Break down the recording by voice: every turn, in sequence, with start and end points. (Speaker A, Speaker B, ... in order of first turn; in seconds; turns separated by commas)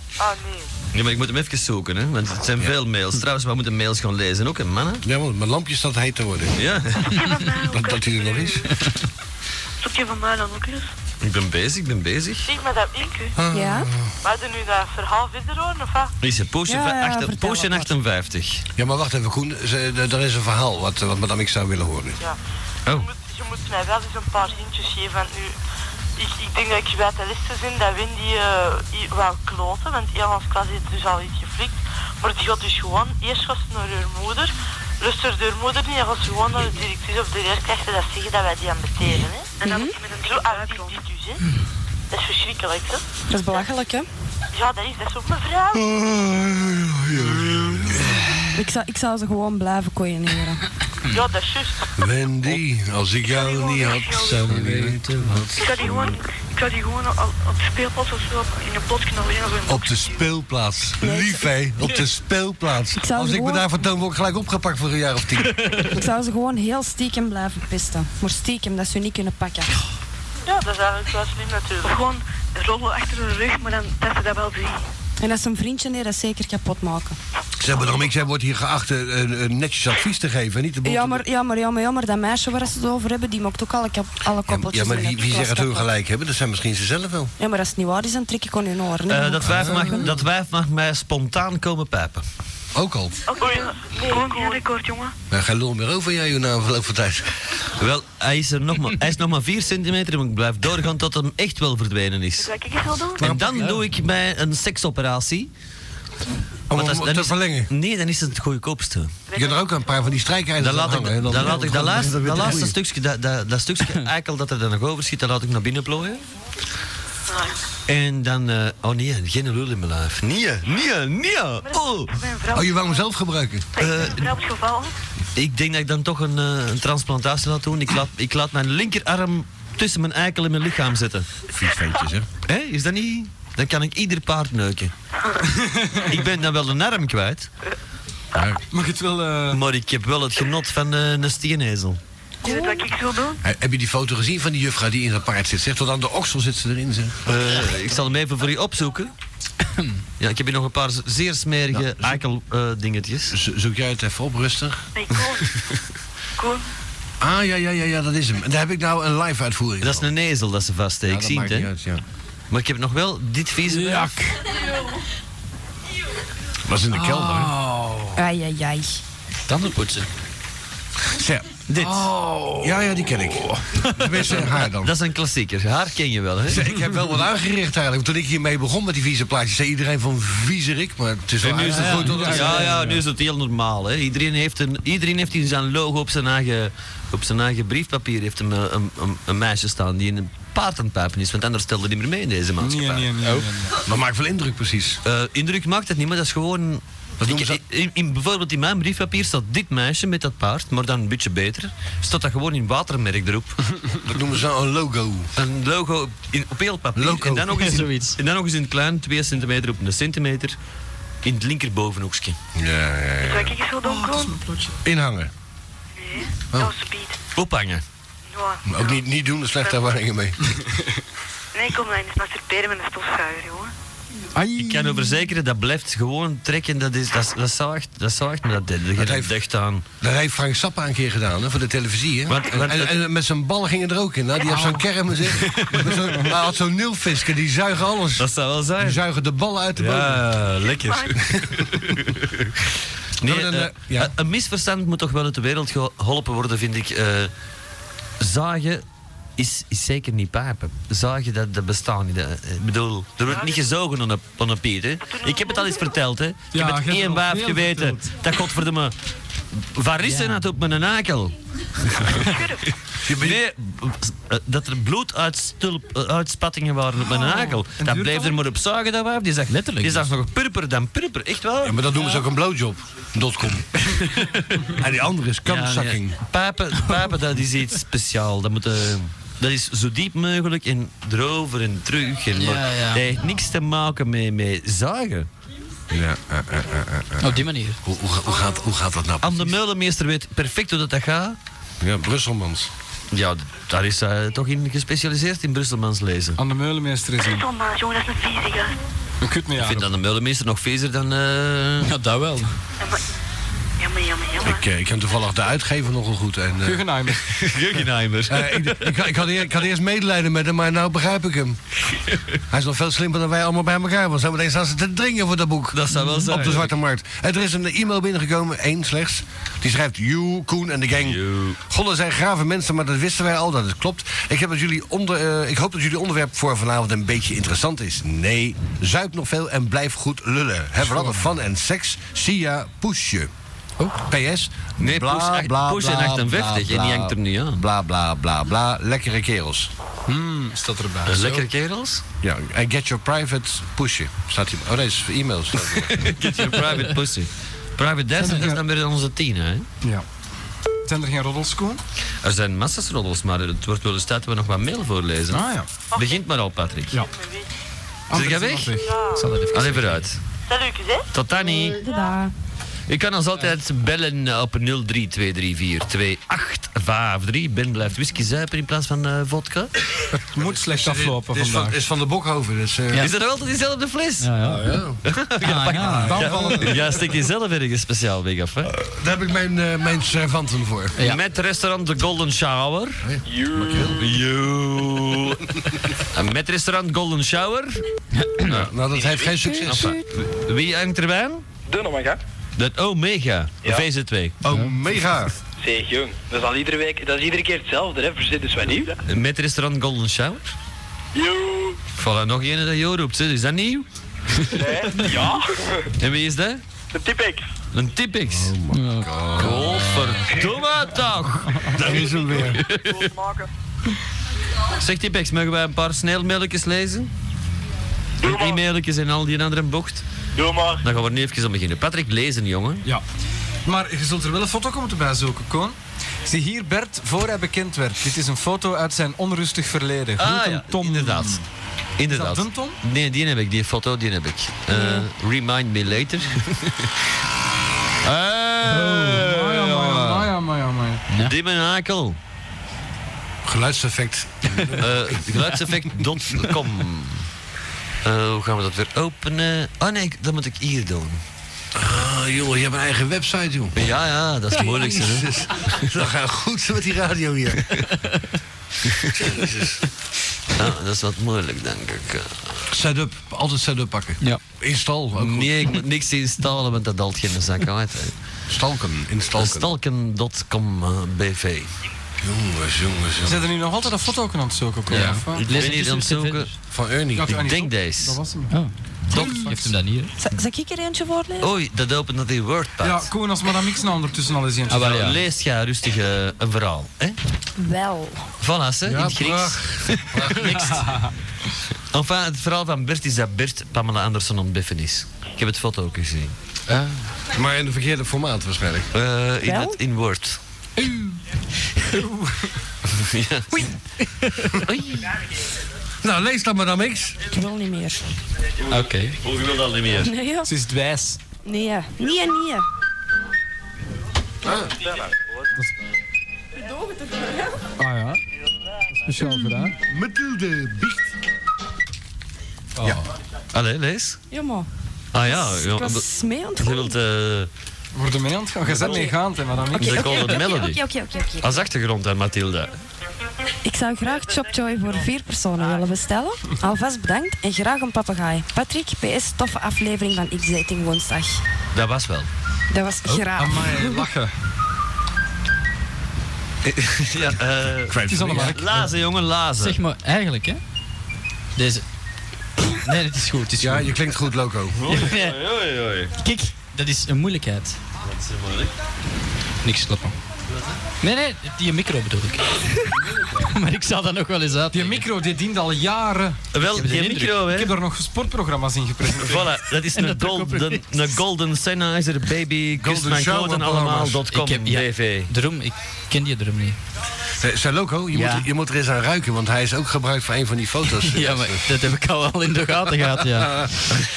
Speaker A: 0.2-0.7, Speaker B: 0.9-5.0, Speaker C: 5.0-6.7, Speaker B: 6.6-7.3, Speaker D: 7.0-8.7, Speaker C: 7.6-8.9, Speaker D: 9.8-10.9, Speaker B: 11.2-12.5, Speaker A: 12.5-13.3, Speaker C: 13.4-14.1, Speaker E: 13.5-13.9, Speaker A: 14.2-16.1, Speaker B: 16.2-18.6, Speaker E: 16.7-17.9, Speaker C: 18.8-22.2, Speaker A: 22.9-25.6, Speaker A: 26.2-39.5, Speaker D: 39.6-41.0, Speaker E: 39.6-39.9, Speaker A: 40.2-41.4, Speaker A: 42.1-43.0, Speaker E: 43.3-44.1, Speaker A: 44.5-45.9, Speaker C: 45.7-48.2, Speaker E: 48.5-50.6, Speaker A: 51.1-51.9, Speaker C: 52.0-56.2, Speaker D: 53.3-54.5, Speaker F: 54.2-55.5, Speaker D: 55.6-60.2, Speaker C: 59.7-65.8, Speaker E: 61.0-61.5, Speaker E: 63.0-63.7, Speaker F: 65.6-65.9, Speaker E: 65.9-69.8, Speaker A: 70.5-72.0, Speaker D: 71.8-74.8, Speaker E: 75.2-77.2, Speaker C: 77.6-81.2, Speaker E: 80.8-85.9, Speaker C: 84.5-87.3, Speaker E: 87.4-89.7, Speaker B: 89.1-92.2, Speaker C: 89.5-90.1, Speaker C: 92.8-93.2, Speaker D: 93.3-95.1, Speaker A: 93.3-94.7, Speaker C: 95.3-97.3, Speaker B: 97.8-102.5, Speaker D: 102.4-103.2, Speaker C: 103.2-103.8, Speaker B: 103.2-105.5, Speaker C: 106.7-107.7, Speaker B: 106.7-109.2, Speaker D: 109.3-109.6, Speaker C: 109.3-112.8, Speaker B: 110.6-116.2, Speaker D: 117.3-117.6, Speaker B: 117.9-122.2, Speaker D: 121.7-123.0, Speaker C: 122.5-123.7, Speaker D: 123.8-124.9, Speaker B: 123.8-124.3, Speaker B: 125.3-131.3, Speaker C: 131.5-132.3, Speaker B: 132.4-134.9, Speaker G: 135.6-136.1, Speaker B: 136.1-137.5, Speaker C: 138.3-138.6, Speaker G: 138.7-139.6, Speaker B: 139.5-142.0, Speaker D: 142.4-143.4, Speaker E: 142.4-142.8, Speaker C: 143.4-147.3, Speaker B: 147.3-149.1, Speaker F: 149.7-150.0, Speaker B: 150.2-153.3, Speaker C: 151.7-152.2, Speaker C: 153.3-154.9, Speaker D: 155.0-155.6, Speaker D: 156.4-156.6, Speaker C: 157.2-160.1, Speaker B: 159.8-161.7, Speaker C: 161.1-162.0, Speaker B: 162.5-164.2, Speaker F: 163.8-164.1, Speaker G: 163.9-164.2, Speaker C: 166.7-167.6, Speaker G: 166.9-168.2, Speaker E: 168.2-169.0, Speaker F: 169.5-170.1, Speaker C: 171.1-171.6, Speaker B: 171.7-172.1, Speaker G: 171.8-172.8, Speaker C: 172.6-174.9, Speaker F: 173.8-174.2, Speaker B: 174.8-176.7, Speaker C: 176.5-182.7, Speaker B: 181.4-193.1, Speaker F: 181.7-182.4, Speaker G: 181.8-183.0, Speaker G: 192.6-193.8, Speaker F: 193.2-193.5, Speaker C: 193.8-195.0, Speaker B: 195.1-203.6, Speaker C: 197.2-197.6, Speaker C: 204.1-205.3, Speaker B: 205.4-210.6, Speaker C: 207.0-207.7, Speaker F: 207.6-208.2, Speaker B: 211.2-212.4, Speaker C: 212.6-213.6, Speaker D: 213.2-214.4, Speaker G: 213.8-214.8, Speaker C: 214.8-215.3, Speaker D: 216.0-217.2, Speaker B: 217.4-217.8, Speaker D: 218.3-219.0, Speaker C: 218.7-220.4, Speaker D: 219.6-219.8, Speaker D: 221.5-223.7, Speaker G: 224.3-225.1, Speaker B: 224.6-229.9, Speaker C: 229.0-229.3, Speaker C: 230.0-241.9, Speaker B: 232.3-233.0, Speaker G: 234.5-234.8, Speaker B: 235.6-236.3, Speaker B: 238.2-239.0, Speaker B: 239.8-240.3, Speaker D: 240.6-241.2, Speaker B: 241.9-242.2, Speaker C: 243.2-244.1, Speaker B: 243.2-247.3, Speaker B: 248.2-248.8, Speaker B: 249.4-258.9, Speaker D: 255.1-255.9, Speaker G: 256.5-258.2, Speaker B: 259.7-261.4, Speaker F: 260.0-260.4, Speaker D: 262.1-262.6, Speaker C: 263.0-263.4, Speaker B: 263.1-271.8, Speaker G: 267.0-268.4, Speaker F: 269.5-270.1, Speaker C: 271.6-274.0, Speaker B: 274.0-274.8, Speaker C: 274.7-276.2, Speaker B: 275.5-285.3, Speaker F: 282.4-283.1, Speaker C: 285.9-289.6, Speaker F: 287.2-287.8, Speaker B: 289.2-291.4, Speaker C: 291.8-292.7, Speaker B: 293.1-296.4, Speaker G: 296.4-297.5, Speaker D: 297.2-298.8, Speaker G: 299.2-299.9, Speaker B: 299.6-301.9, Speaker F: 301.8-302.6, Speaker D: 303.8-304.6, Speaker C: 304.4-306.9, Speaker G: 306.6-307.3, Speaker B: 307.3-309.1, Speaker C: 308.3-311.6, Speaker C: 312.5-333.3, Speaker B: 315.7-316.7, Speaker F: 316.0-316.3, Speaker B: 321.0-321.6, Speaker G: 330.9-331.2, Speaker C: 334.0-339.7, Speaker B: 334.8-337.6, Speaker G: 340.1-341.5, Speaker B: 341.1-342.0, Speaker C: 342.2-346.1, Speaker B: 345.9-349.7, Speaker G: 348.2-348.6, Speaker G: 350.9-351.8, Speaker B: 352.2-357.0, Speaker G: 355.3-355.7, Speaker A: 355.9-356.2, Speaker A: 357.0-357.5, Speaker G: 358.1-358.9, Speaker B: 358.1-358.8, Speaker A: 358.8-359.2, Speaker F: 359.1-360.1, Speaker B: 359.5-360.2, Speaker A: 360.5-361.1, Speaker B: 361.1-361.8, Speaker E: 361.8-362.3, Speaker B: 362.9-369.7, Speaker G: 370.3-371.8, Speaker C: 370.4-373.1, Speaker B: 373.0-374.4, Speaker F: 374.2-374.8, Speaker C: 374.4-375.0, Speaker B: 375.1-378.7, Speaker F: 375.4-376.2, Speaker C: 375.7-376.8, Speaker G: 375.9-376.9, Speaker C: 378.8-381.0, Speaker B: 381.0-383.1, Speaker C: 383.0-384.0, Speaker H: 383.3-384.0, Speaker B: 384.0-387.8, Speaker F: 388.1-388.6, Speaker C: 388.4-390.0, Speaker B: 389.6-391.4, Speaker H: 391.7-392.2, Speaker B: 392.6-394.4, Speaker C: 394.4-395.4, Speaker H: 395.6-399.0, Speaker B: 399.1-400.5, Speaker H: 401.1-401.8, Speaker B: 402.0-403.9, Speaker H: 404.5-405.9, Speaker B: 406.0-406.6, Speaker H: 406.9-407.5, Speaker B: 407.7-408.5, Speaker C: 408.3-410.5, Speaker F: 408.7-409.1, Speaker B: 409.4-411.9, Speaker C: 411.7-412.6, Speaker H: 411.8-413.5, Speaker B: 412.4-413.0, Speaker B: 414.8-417.1, Speaker H: 418.2-418.6, Speaker B: 418.2-420.1, Speaker H: 420.4-420.9, Speaker B: 420.8-422.9, Speaker G: 423.6-431.4, Speaker B: 430.2-431.4, Speaker B: 432.0-436.9, Speaker G: 432.1-432.8, Speaker B: 438.0-440.3, Speaker G: 438.6-441.1, Speaker B: 441.2-442.2, Speaker C: 443.4-445.3, Speaker B: 444.8-447.3, Speaker B: 448.0-451.2, Speaker C: 451.8-453.8, Speaker B: 453.8-455.9, Speaker C: 454.9-457.8, Speaker B: 459.1-459.5, Speaker C: 459.1-459.8, Speaker B: 460.5-462.7, Speaker C: 462.7-465.7, Speaker B: 465.2-468.1, Speaker C: 468.5-469.7, Speaker B: 469.4-471.7, Speaker C: 472.2-473.5, Speaker G: 473.2-475.5, Speaker B: 474.9-476.5, Speaker F: 474.9-476.5, Speaker C: 476.7-477.3, Speaker G: 477.1-478.6, Speaker B: 477.3-478.2, Speaker F: 478.5-480.1, Speaker B: 479.1-479.7, Speaker G: 479.1-479.7, Speaker E: 480.2-481.5, Speaker B: 481.4-483.1, Speaker G: 482.8-485.2, Speaker F: 484.7-485.2, Speaker B: 484.7-487.2, Speaker E: 487.6-488.3, Speaker B: 488.4-490.9, Speaker C: 488.9-490.8, Speaker G: 490.8-491.1, Speaker B: 491.9-496.3, Speaker C: 496.7-498.9, Speaker B: 498.9-500.4, Speaker E: 499.4-499.8, Speaker G: 500.8-501.2, Speaker G: 501.9-502.5, Speaker B: 502.9-503.6, Speaker B: 504.6-505.1, Speaker C: 506.0-507.2, Speaker E: 507.3-508.0, Speaker F: 508.7-509.2, Speaker B: 509.2-510.1, Speaker E: 510.0-510.5, Speaker G: 510.4-511.2, Speaker E: 511.4-512.7, Speaker C: 514.4-514.7, Speaker G: 517.8-518.2, Speaker G: 518.9-519.8, Speaker C: 519.8-521.1, Speaker G: 522.8-523.0, Speaker B: 523.5-524.2, Speaker E: 524.3-524.7, Speaker B: 525.1-526.0, Speaker E: 525.2-527.0, Speaker B: 526.6-527.5, Speaker G: 528.0-530.4, Speaker B: 528.7-529.1, Speaker E: 528.8-529.1, Speaker E: 529.7-531.7, Speaker B: 529.8-530.8, Speaker B: 531.4-532.7, Speaker E: 533.6-541.4, Speaker B: 541.7-542.3, Speaker E: 542.7-544.0, Speaker G: 543.3-544.3, Speaker C: 546.7-547.2, Speaker B: 547.0-549.8, Speaker C: 547.9-548.5, Speaker G: 548.0-548.8, Speaker F: 549.6-550.6, Speaker F: 551.6-551.8, Speaker F: 552.8-553.9, Speaker C: 553.6-554.8, Speaker B: 554.8-556.1, Speaker F: 554.9-555.4, Speaker F: 556.2-557.8, Speaker B: 558.0-558.7, Speaker F: 559.6-560.2, Speaker F: 561.0-565.0, Speaker G: 564.7-566.4, Speaker B: 566.5-567.8, Speaker F: 566.6-567.4, Speaker G: 567.4-569.5, Speaker B: 569.2-575.3, Speaker F: 569.9-571.1, Speaker C: 572.8-574.2, Speaker F: 574.3-576.8, Speaker C: 577.4-581.7, Speaker F: 578.1-578.5, Speaker F: 581.0-583.7